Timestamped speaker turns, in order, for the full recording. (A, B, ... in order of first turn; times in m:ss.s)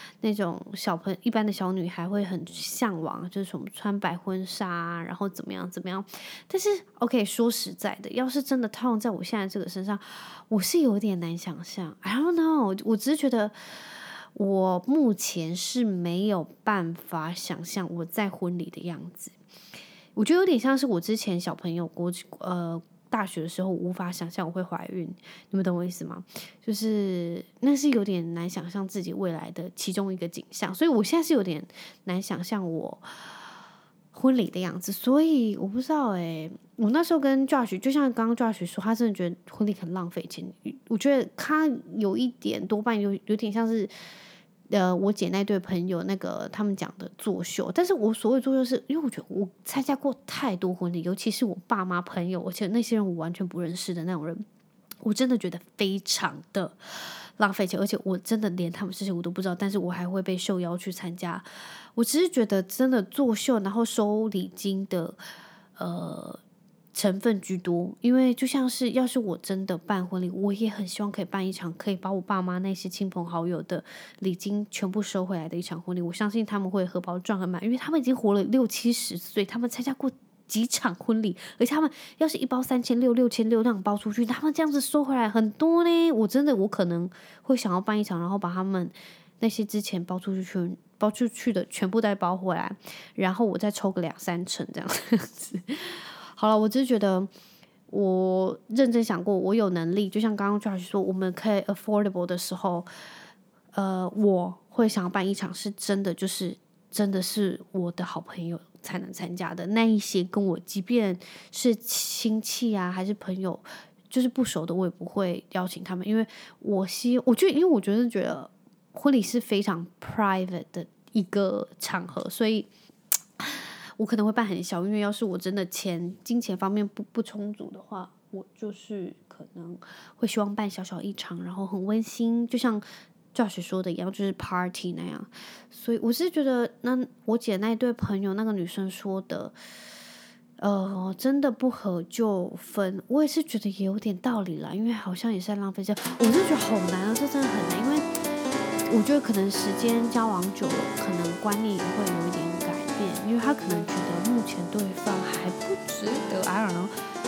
0:00.2-0:19.3 A
0:20.2-0:33.4 A
0:34.1-0:43.9 A
0:44.7-0:54.4 A
0:55.0-0:56.8 A
0:57.4-1:05.2 A
1:05.8-1:06.4 A
1:06.9-1:37.3 A
1:37.9-1:42.9 A
1:43.7-2:02.7 A
2:03.4-2:19.5 A
2:20.6-2:28.1 A
2:28.9-2:36.9 A